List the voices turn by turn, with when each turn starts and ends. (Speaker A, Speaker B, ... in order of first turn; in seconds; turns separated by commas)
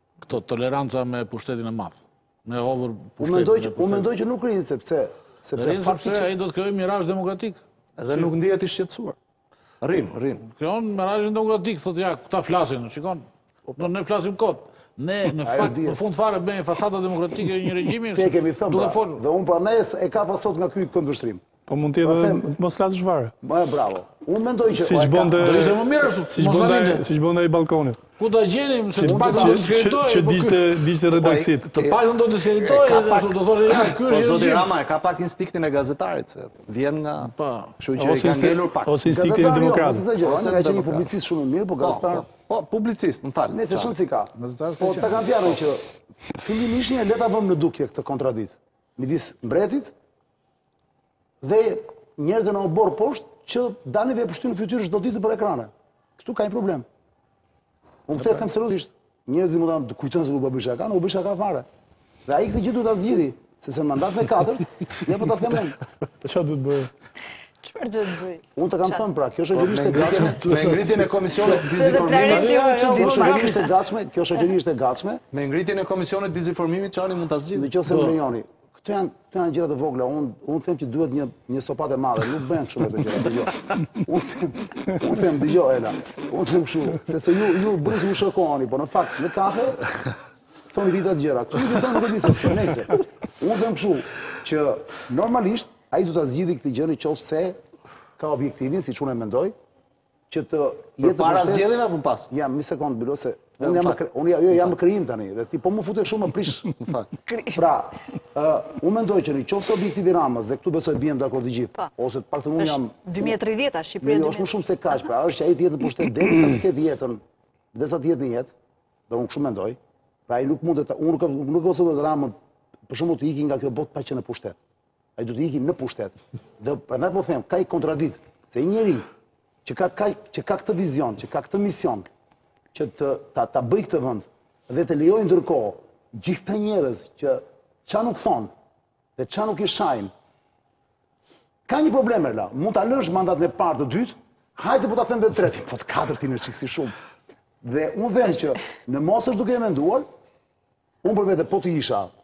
Speaker A: 0.2-4.1, Speaker B: 3.2-6.3, Speaker A: 5.5-8.3, Speaker C: 8.0-9.2, Speaker C: 9.8-10.4, Speaker A: 10.4-19.2, Speaker B: 15.4-16.0, Speaker B: 18.1-21.4, Speaker D: 21.7-23.3, Speaker B: 22.0-22.5, Speaker B: 23.4-25.7, Speaker D: 24.7-28.0, Speaker A: 25.4-27.1, Speaker A: 28.2-30.8, Speaker D: 28.9-31.7, Speaker B: 29.0-29.7, Speaker C: 31.1-32.0, Speaker A: 31.6-34.7, Speaker C: 32.6-38.9, Speaker A: 37.2-37.8, Speaker D: 38.0-40.0, Speaker B: 39.0-42.2, Speaker C: 40.2-41.1, Speaker C: 41.8-43.9, Speaker B: 43.5-49.9, Speaker A: 44.4-45.4, Speaker B: 51.4-56.9, Speaker B: 58.1-61.6, Speaker B: 62.2-65.8, Speaker D: 66.2-66.9, Speaker E: 67.6-68.9, Speaker B: 68.5-70.4, Speaker C: 69.5-72.5, Speaker A: 70.0-73.6, Speaker E: 71.5-73.7, Speaker B: 72.9-75.2, Speaker C: 75.3-77.7, Speaker B: 77.5-89.8, Speaker A: 77.9-78.2, Speaker B: 90.7-97.6, Speaker B: 98.2-99.5, Speaker B: 100.3-101.8, Speaker C: 101.0-102.3, Speaker B: 102.3-106.7, Speaker C: 103.6-104.0, Speaker C: 106.8-107.1, Speaker E: 107.3-107.6, Speaker B: 107.5-113.3, Speaker E: 112.6-114.5, Speaker B: 114.0-117.2, Speaker B: 117.7-118.5, Speaker B: 119.1-122.3, Speaker B: 122.9-124.6, Speaker B: 125.2-129.1, Speaker B: 129.6-132.1, Speaker B: 132.7-138.5, Speaker B: 139.2-140.1, Speaker B: 141.7-146.9, Speaker B: 147.6-150.1, Speaker B: 151.0-152.1